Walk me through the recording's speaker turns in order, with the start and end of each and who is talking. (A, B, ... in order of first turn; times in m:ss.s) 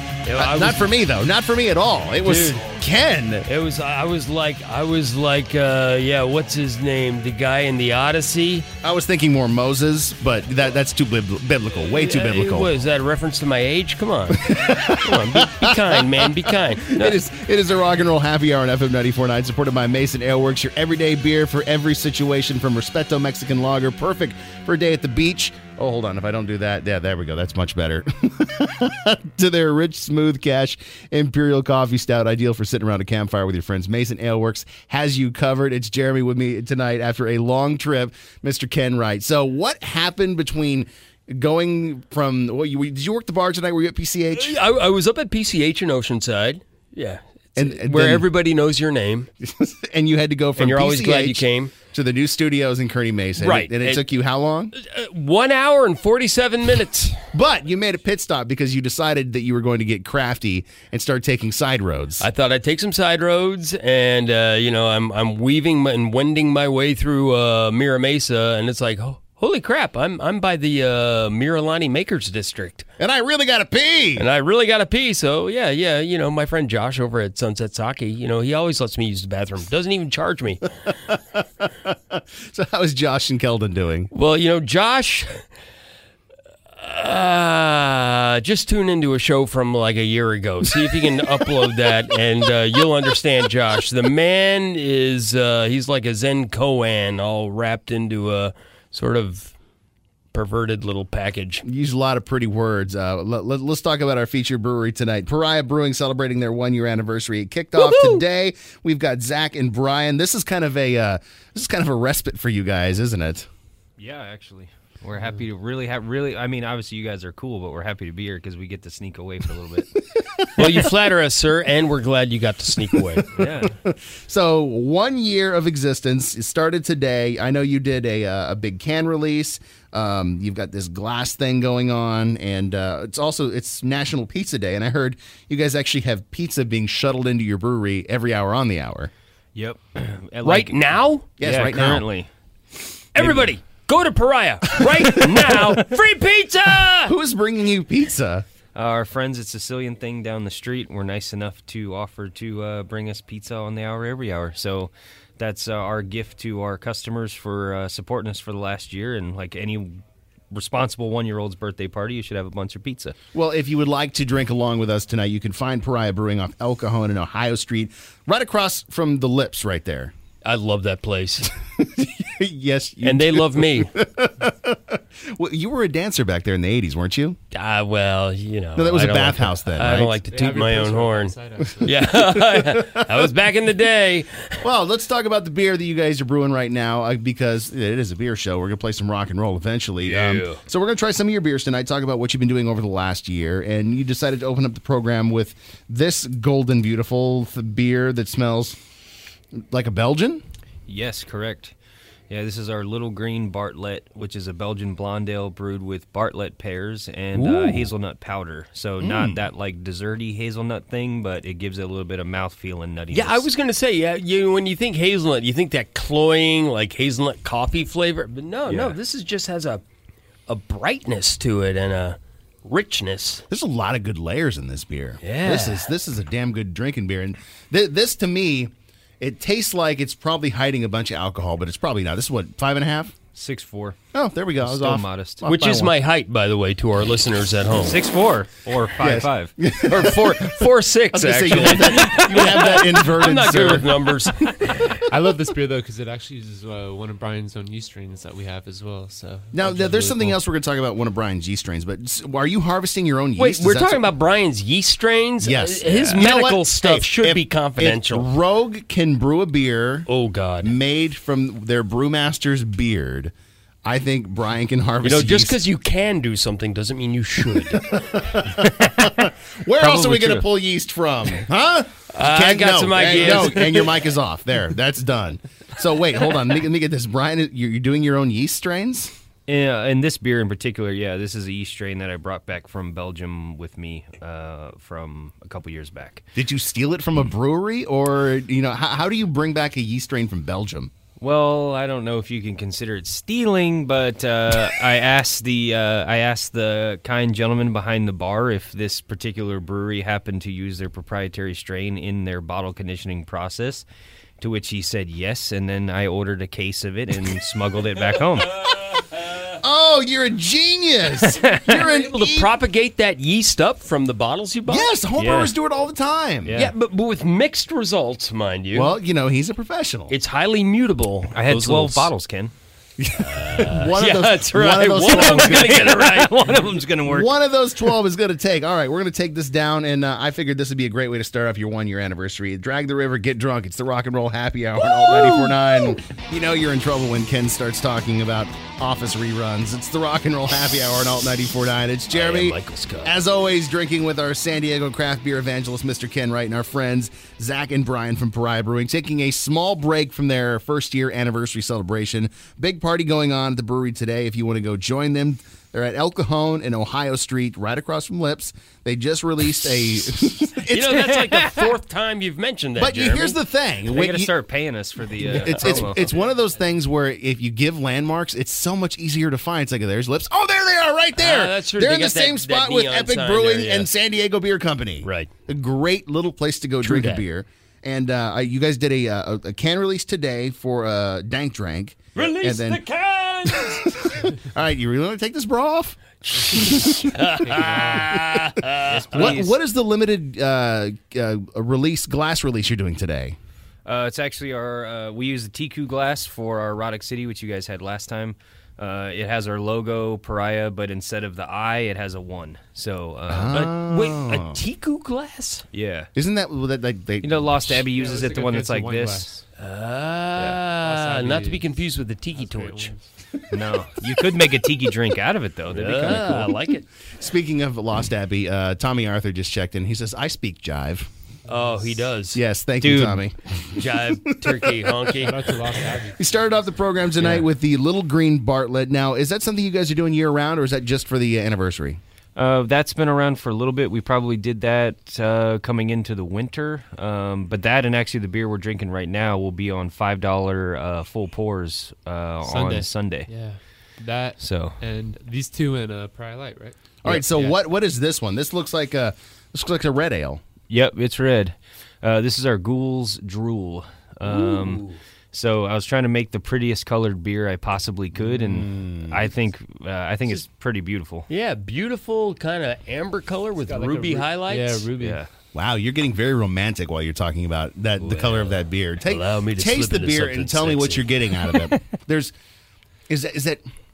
0:00.3-0:00.9 A
0:00.4-0:03.5 B
0:02.2-0:02.7 A
0:03.4-0:08.7 A
0:08.8-0:12.7 B
0:11.9-0:17.2 A
0:14.3-0:44.6 B
0:44.4-0:49.3 A
0:47.6-0:48.3 B
0:49.4-0:54.7 B
0:50.6-0:51.7 A
0:53.4-0:54.1 A
0:54.7-0:57.2 A
0:57.3-1:02.2 B
1:02.2-1:12.8 A
1:13.0-1:14.3 B
1:14.2-1:20.7 A
1:21.1-1:24.1 B
1:24.1-1:25.4 A
1:26.8-1:39.5 A
1:40.3-1:41.6 A
1:41.6-1:53.5 B
1:47.8-1:48.2 A
1:54.0-1:59.9 C
2:00.4-2:00.7 B
2:00.6-2:03.3 A
2:03.1-2:19.1 B
2:03.3-2:03.7 C
2:19.6-2:20.8 C
2:20.4-2:21.2 A
2:21.4-2:22.1 B
2:21.4-2:22.3 C
2:23.2-2:27.1 A
2:23.2-2:23.5 C
2:27.0-2:28.4 B
2:28.7-2:43.2 C
2:43.3-2:50.1 B
2:50.4-2:51.5 A
2:51.8-2:57.4 B
2:53.0-2:53.9 A
2:57.5-3:04.6 A
2:58.8-3:00.2 B
3:00.3-3:02.1 D
3:01.8-3:03.1 B
3:04.6-3:18.8 B
3:10.0-3:10.6 A
3:19.7-3:20.4 B
3:20.9-3:21.7 C
3:22.3-3:33.5 C
3:27.3-3:27.9 A
3:29.0-3:29.4 B
3:33.1-3:39.8 A
3:38.7-3:39.0 C
3:40.5-3:43.4 A
3:43.5-3:53.1 B
3:45.2-3:45.9 A
3:53.3-3:54.0 C
3:54.1-3:55.9 B
3:54.6-3:55.4 C
3:55.4-3:58.0 A
3:57.8-3:59.5 C
3:59.0-4:00.4 B
3:59.9-4:04.9 A
4:01.1-4:04.3 B
4:05.1-4:10.4 D
4:09.5-4:14.1 B
4:13.4-4:18.3 A
4:15.4-4:20.1 B
4:20.1-4:20.8 A
4:20.6-4:23.3 B
4:23.8-4:25.6 B
4:25.0-4:28.3 A
4:27.6-4:39.1 B
4:29.8-4:30.5 C
4:32.1-4:34.0 A
4:39.5-4:46.2 C
4:46.4-4:50.9 B
4:51.2-5:03.9 C
5:04.4-5:08.5 C
5:09.6-5:12.5 B
5:11.7-5:14.9 A
5:14.7-5:16.6 B
5:15.2-5:15.5 C
5:16.4-5:16.7 C
5:16.5-5:18.9 A
5:18.7-5:20.1 B
5:20.1-5:22.1 A
5:21.3-5:22.5 C
5:23.0-5:25.9 B
5:23.2-5:26.6 A
5:25.2-5:27.3 C
5:27.0-6:01.5 B
5:34.8-5:36.0 A
5:42.1-5:43.1 A
6:00.7-6:03.4 A
6:02.8-6:04.3 B
6:03.9-6:06.1 C
6:05.2-6:22.8 B
6:11.2-6:13.9 A
6:15.0-6:15.3 A
6:16.8-6:17.2 A
6:22.1-6:23.9 A
6:23.5-6:27.1 B
6:26.3-6:29.4 A
6:27.4-6:28.1 D
6:28.1-6:28.4 B
6:28.8-6:29.6 C
6:29.1-6:33.4 B
6:33.8-6:43.6 C
6:43.3-6:44.6 B
6:43.5-6:45.6 A
6:45.7-6:46.1 C
6:46.1-6:47.8 B
6:47.2-6:49.4 C
6:47.9-6:49.4 D
6:49.6-6:52.9 A
6:50.4-6:50.6 C
6:50.7-6:51.8 D
6:52.3-6:53.0 D
6:53.5-6:56.5 C
6:55.7-6:56.9 A
6:56.1-6:56.5 B
6:57.2-7:01.1 B
7:01.5-7:01.9 D
7:01.5-7:02.4 A
7:02.3-7:05.1 B
7:02.8-7:03.2 C
7:03.7-7:05.4 A
7:05.2-7:06.7 D
7:06.2-7:12.0 B
7:07.2-7:07.5 A
7:12.4-7:23.3 C
7:22.4-7:27.6 D
7:24.4-7:24.8 C
7:27.0-7:30.4 B
7:30.7-7:41.3 C
7:34.2-7:35.0 A
7:38.3-7:39.3 B
7:41.3-7:44.9 A
7:43.6-7:45.2 D
7:45.0-7:45.3 C
7:45.5-7:52.3 B
7:48.0-7:51.2 A
7:53.1-7:53.6 B